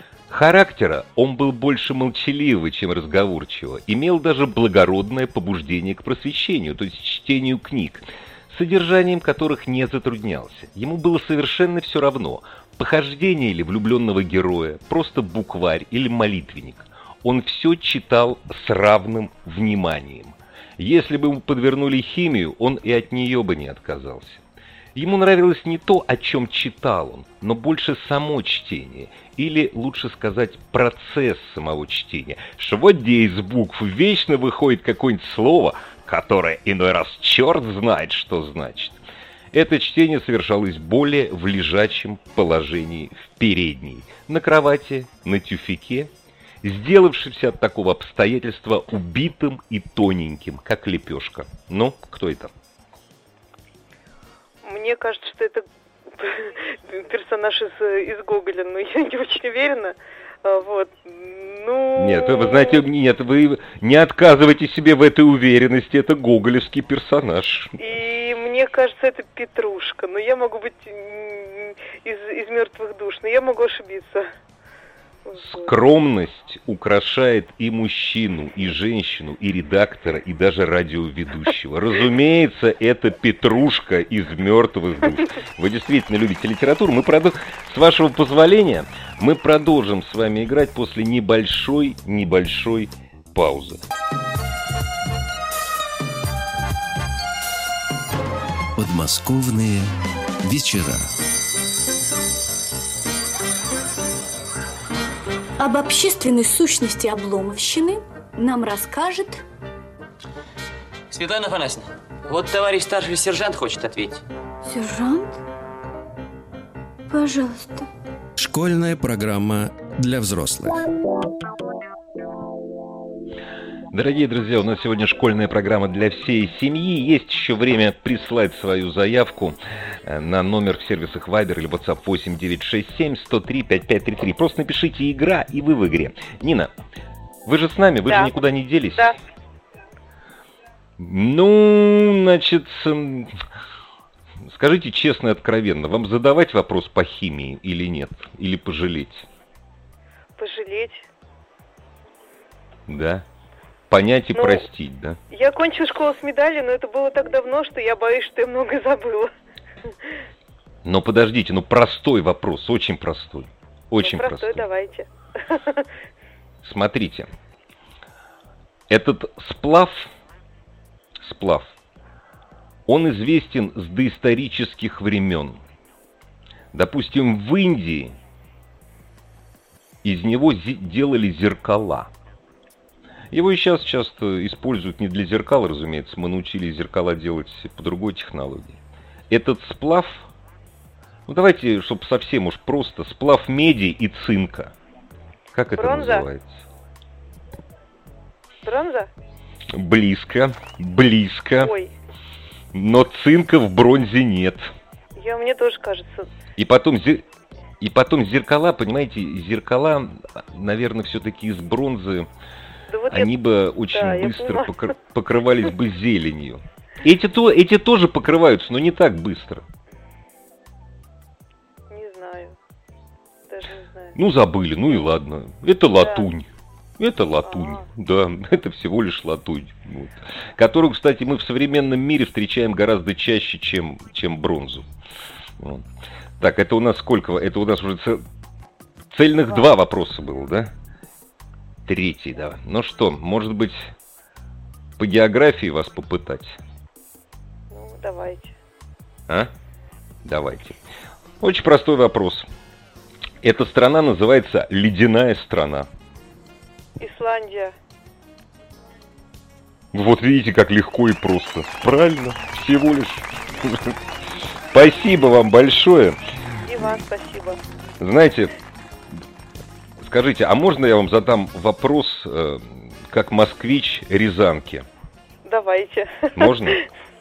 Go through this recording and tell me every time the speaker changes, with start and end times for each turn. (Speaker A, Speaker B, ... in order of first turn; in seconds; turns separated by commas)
Speaker A: 0.3-24.4, Speaker A: 24.9-39.0, Speaker A: 39.5-46.1, Speaker A: 46.6-52.5, Speaker B: 54.6-55.6, Speaker B: 56.1-62.8, Speaker A: 61.9-67.7, Speaker B: 67.8-74.3, Speaker B: 75.3-75.8, Speaker A: 75.4-93.8, Speaker C: 98.8-99.9, Speaker C: 100.4-101.1, Speaker D: 105.6-109.4, Speaker E: 111.1-114.2, Speaker D: 114.6-115.4, Speaker D: 117.1-117.9, Speaker C: 118.4-120.8, Speaker A: 123.9-136.7, Speaker A: 137.4-139.2, Speaker B: 138.1-138.4, Speaker A: 141.0-143.3, Speaker A: 144.4-149.2, Speaker B: 150.4-151.1, Speaker A: 152.9-153.2, Speaker A: 153.9-155.2, Speaker B: 154.3-154.6, Speaker B: 155.3-159.3, Speaker A: 160.8-164.7, Speaker B: 164.0-165.8, Speaker A: 166.6-167.3, Speaker A: 168.9-170.1, Speaker A: 171.2-171.7, Speaker A: 172.9-175.6, Speaker A: 176.7-178.1, Speaker A: 180.0-182.1, Speaker A: 183.3-188.8, Speaker A: 189.3-190.3, Speaker A: 191.3-194.7, Speaker A: 195.5-196.6, Speaker B: 195.7-196.3, Speaker B: 198.6-199.1, Speaker A: 199.7-201.7, Speaker B: 201.6-201.9, Speaker A: 202.7-204.7, Speaker B: 205.2-206.3, Speaker A: 206.6-207.2, Speaker A: 207.8-212.3, Speaker B: 212.9-213.3, Speaker A: 213.1-219.6, Speaker B: 213.9-214.9, Speaker B: 221.9-222.6, Speaker B: 223.5-224.2, Speaker A: 224.2-226.5, Speaker B: 225.9-226.3, Speaker A: 227.0-234.9, Speaker B: 227.4-227.8, Speaker A: 235.6-235.8, Speaker A: 236.4-238.2, Speaker A: 239.1-240.7, Speaker A: 241.8-243.9, Speaker A: 245.0-246.6, Speaker B: 247.7-248.5, Speaker A: 250.2-250.8, Speaker A: 251.4-252.5, Speaker A: 253.4-255.9, Speaker B: 257.0-257.7, Speaker A: 259.9-263.9, Speaker A: 264.7-266.2, Speaker B: 266.6-267.6, Speaker A: 268.0-268.5, Speaker A: 270.0-274.9, Speaker B: 275.4-276.8, Speaker A: 276.3-276.8